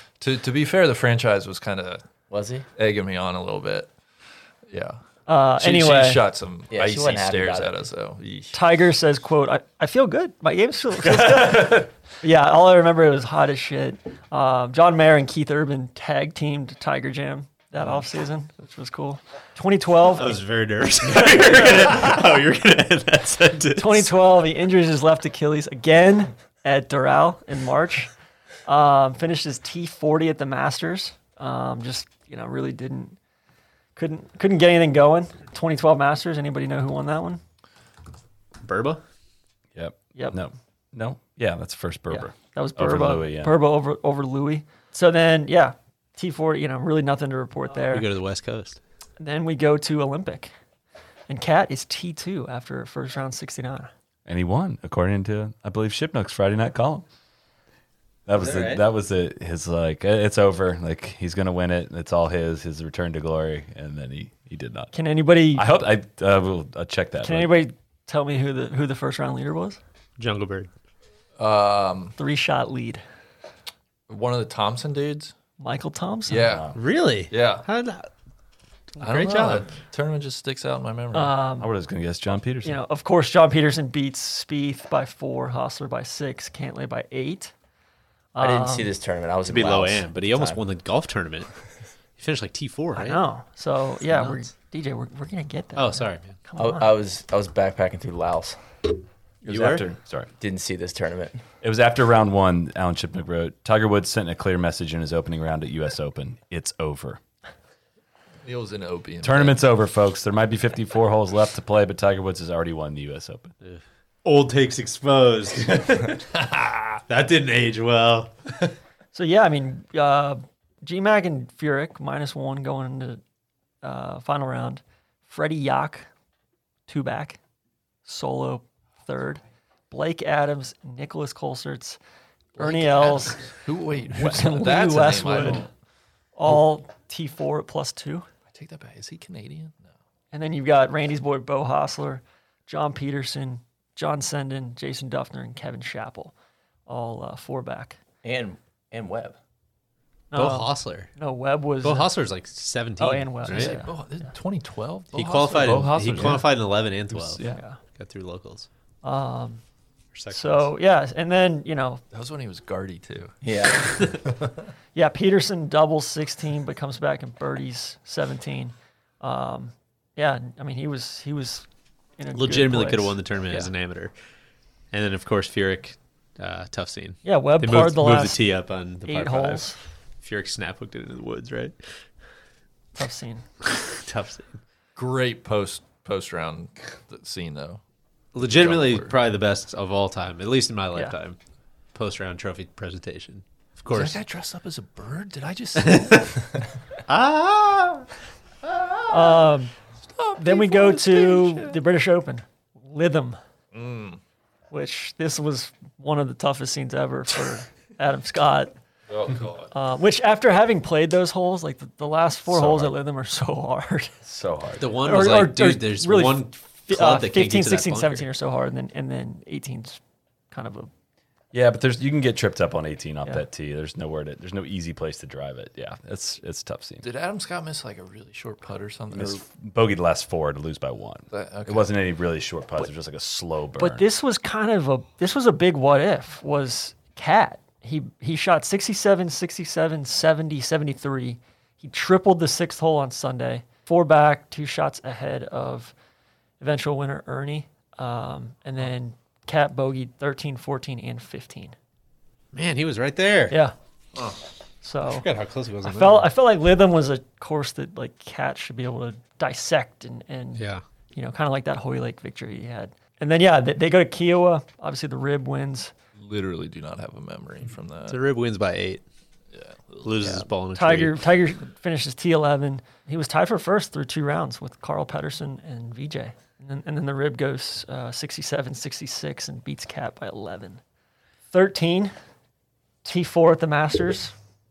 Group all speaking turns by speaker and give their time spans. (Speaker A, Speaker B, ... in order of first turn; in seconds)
Speaker A: 0.2-2.0, 2.8-3.9, 4.7-5.0, 5.6-8.6, 71.4-72.1, 74.1-75.3, 76.3-76.8, 77.3-77.7, 79.0-81.4, 108.4-109.6, 132.6-135.7, 138.5-139.9, 153.5-156.5, 162.1-164.5, 185.0-187.8, 188.4-189.2, 193.9-196.3, 200.1-201.8, 203.7-204.2, 209.1-209.7, 227.0-229.4, 231.3-231.9, 266.2-268.2, 269.5-270.4
Speaker B: 2.3-2.7, 6.7-7.8, 88.4-90.6, 96.6-98.6, 100.4-101.4, 148.2-149.4, 163.4-164.2
Speaker C: 5.3-6.2, 8.5-20.4, 23.8-28.1, 28.7-33.2, 34.0-37.4, 42.1-48.1, 49.2-50.5, 51.3-53.9, 64.9-65.7, 67.2-69.8, 72.2-73.0, 75.6-76.5, 81.1-81.7, 82.6-87.5, 88.3-88.9, 92.9-96.9, 119.1-123.2, 123.8-126.1, 126.9-127.4, 128.1-132.0, 132.6-133.5, 134.1-135.7, 136.4-138.3, 140.3-146.3, 146.9-148.0, 150.3-152.1, 153.0-153.9, 157.5-157.8, 159.0-159.6, 160.3-162.0, 164.9-171.7, 172.2-173.2, 177.2-178.4, 179.1-179.8, 183.0-183.4, 199.1-199.7, 200.4-203.4, 204.7-208.7, 209.7-214.2, 215.1-220.0, 220.5-220.9, 233.8-245.9, 246.6-251.8, 254.8-255.3, 255.8-265.9, 270.8-280.8, 281.5-282.1, 283.0-284.3
Speaker D: 11.2-11.8, 39.8-43.6, 54.3-57.0, 58.3-64.9, 65.5-67.6, 76.5-76.8, 81.6-82.8, 99.5-100.3, 101.6-107.2, 109.2-113.5, 155.9-156.4, 212.5-212.9, 214.2-214.8, 221.5-227.1, 229.1-234.0
Speaker E: 20.2-24.1, 38.6-39.0, 47.9-48.8, 58.4-58.8, 70.2-70.7, 76.8-78.1, 79.0-79.7, 89.5-91.5, 92.2-93.2, 94.1-94.4, 95.8-96.4, 99.4-99.9, 113.7-116.2, 117.1-118.3, 150.3-151.1, 151.8-153.8, 155.1-158.7, 160.1-160.7, 172.3-174.1, 174.9-179.7, 180.2-181.8, 183.6-184.6, 188.3-191.4, 191.9-194.2, 195.8-196.4, 197.1-198.1, 214.8-218.3, 252.5-253.6, 255.0-256.3, 260.6-260.8, 268.1-269.0, 270.0-271.3